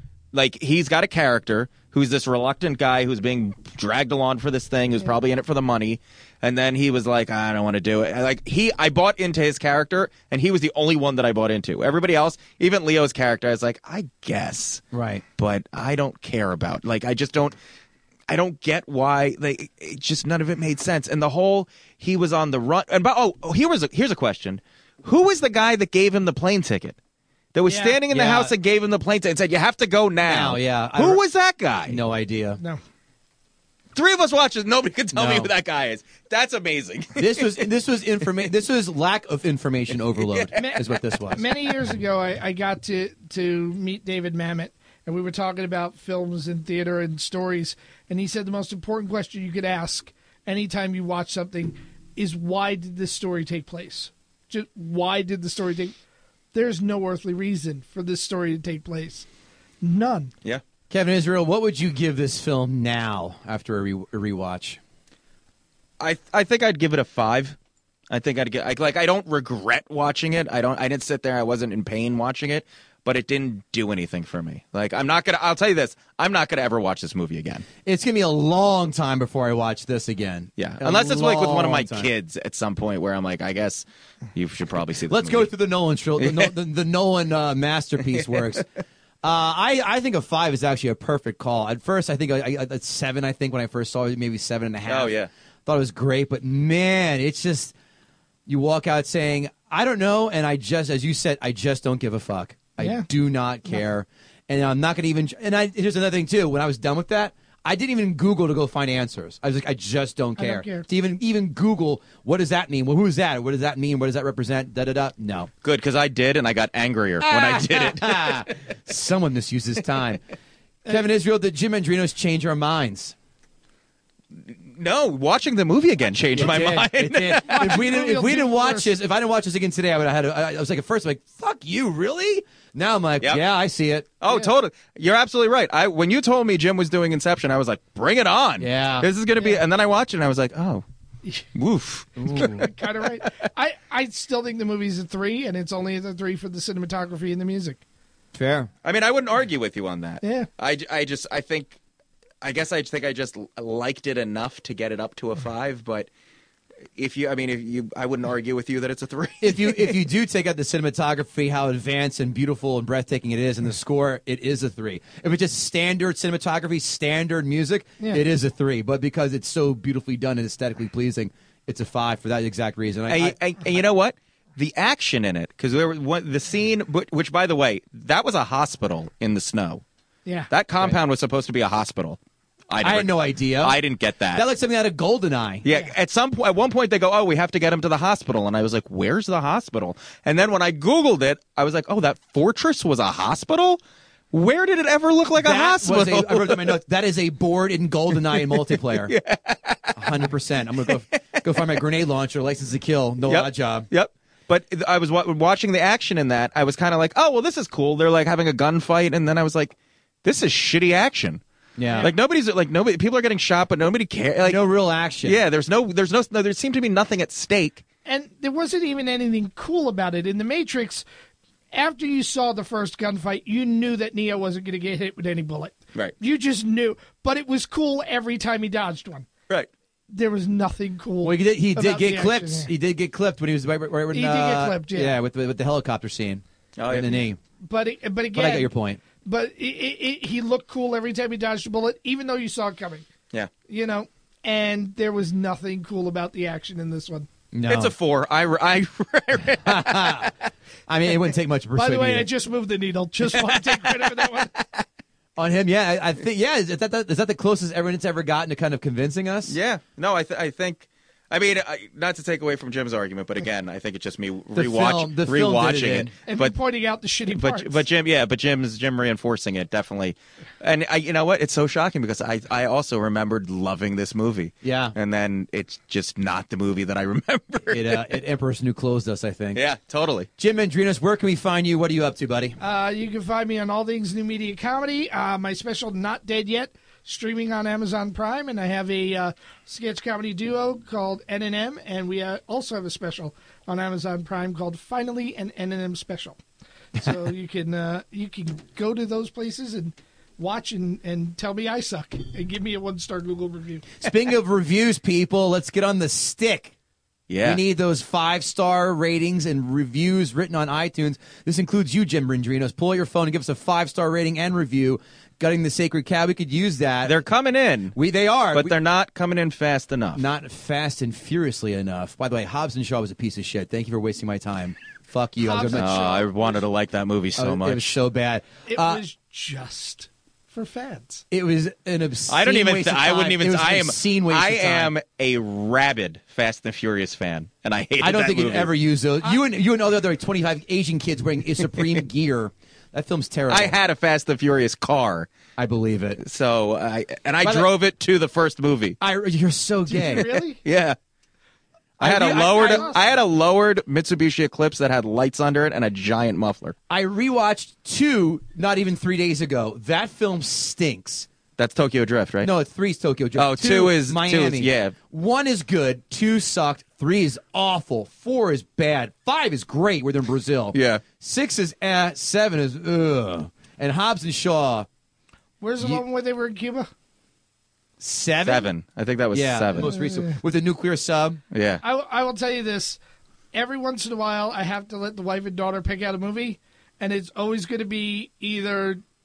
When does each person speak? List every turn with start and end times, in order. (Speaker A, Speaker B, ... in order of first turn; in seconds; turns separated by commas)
Speaker A: 0.3-14.8, Speaker B: 14.9-15.2, Speaker A: 15.4-17.6, Speaker A: 18.3-27.0, Speaker A: 27.5-32.0, Speaker C: 27.6-28.0, Speaker B: 28.1-28.5, Speaker B: 30.2-31.2, Speaker B: 31.9-32.6, Speaker A: 33.9-37.6, Speaker B: 35.1-35.5, Speaker B: 37.1-41.4, Speaker A: 40.1-40.5, Speaker C: 40.5-55.9, Speaker C: 56.5-59.3, Speaker C: 59.8-60.3, Speaker B: 60.9-64.8, Speaker A: 66.0-67.6, Speaker A: 68.1-77.7, Speaker B: 77.8-82.1, Speaker A: 80.6-85.5, Speaker B: 85.1-88.7, Speaker A: 86.2-86.5, Speaker A: 88.2-88.6, Speaker B: 89.2-97.7, Speaker A: 94.9-95.3, Speaker B: 98.5-115.5, Speaker C: 102.8-103.1, Speaker C: 110.4-110.9, Speaker A: 115.6-118.5, Speaker B: 117.2-120.2, Speaker B: 120.8-123.1, Speaker A: 124.3-127.8, Speaker C: 126.4-126.7, Speaker B: 126.4-134.1, Speaker C: 127.4-128.9, Speaker A: 134.2-140.8, Speaker B: 138.6-139.1, Speaker A: 141.5-143.3, Speaker B: 142.2-142.7, Speaker C: 142.3-147.8, Speaker B: 148.3-148.7, Speaker A: 148.8-151.8, Speaker C: 150.2-150.5, Speaker A: 152.4-156.1, Speaker A: 156.9-159.9, Speaker B: 159.4-173.3, Speaker A: 173.1-179.8, Speaker A: 180.5-184.4, Speaker B: 182.8-183.8, Speaker B: 184.3-185.7, Speaker A: 185.6-196.8, Speaker B: 195.3-199.1, Speaker A: 198.1-200.3, Speaker B: 199.9-203.9, Speaker A: 201.4-201.7, Speaker A: 203.2-211.4, Speaker B: 211.8-212.1, Speaker C: 211.9-212.1, Speaker A: 212.0-214.6, Speaker B: 214.4-215.4, Speaker A: 215.2-217.8, Speaker C: 218.1-221.0, Speaker C: 221.7-229.3, Speaker C: 230.1-232.7, Speaker B: 231.2-237.4, Speaker C: 234.1-235.2, Speaker A: 236.8-237.2, Speaker C: 237.7-238.7, Speaker B: 238.3-239.0, Speaker C: 239.2-243.1, Speaker C: 243.7-247.3, Speaker B: 247.5-247.9, Speaker A: 247.7-250.3, Speaker B: 249.6-250.3, Speaker B: 250.9-252.3, Speaker C: 251.8-254.5, Speaker B: 255.4-259.5, Speaker A: 259.5-266.5, Speaker B: 264.5-266.1, Speaker C: 266.2-267.8, Speaker A: 267.3-278.1, Speaker B: 274.6-274.9, Speaker B: 277.7-279.7, Speaker A: 279.5-280.3, Speaker B: 280.4-282.6, Speaker C: 282.6-296.4, Speaker C: 297.0-304.0, Speaker B: 304.0-306.7, Speaker A: 307.3-307.6, Speaker B: 307.4-317.2, Speaker A: 317.0-317.9, Speaker B: 317.9-318.7, Speaker A: 318.5-320.2, Speaker B: 320.1-325.9, Speaker C: 325.4-326.6, Speaker A: 325.7-327.9, Speaker B: 327.4-329.0, Speaker C: 328.7-331.2, Speaker B: 331.3-334.9, Speaker A: 332.3-338.7, Speaker B: 338.0-343.8, Speaker A: 343.5-345.3, Speaker B: 345.6-346.2, Speaker A: 346.2-349.0, Speaker B: 347.4-347.7, Speaker B: 349.0-350.3, Speaker C: 349.9-350.6, Speaker A: 350.6-350.9, Speaker B: 352.0-352.9, Speaker A: 352.0-356.8, Speaker C: 352.2-353.1, Speaker B: 356.9-361.3, Speaker A: 361.6-362.5, Speaker B: 362.4-374.9, Speaker A: 363.4-364.9, Speaker A: 370.7-371.0, Speaker C: 375.6-376.9, Speaker B: 378.0-378.7, Speaker A: 378.4-379.9, Speaker B: 379.3-381.4, Speaker C: 379.8-380.4, Speaker A: 381.5-381.8, Speaker C: 381.8-383.0, Speaker C: 383.5-389.0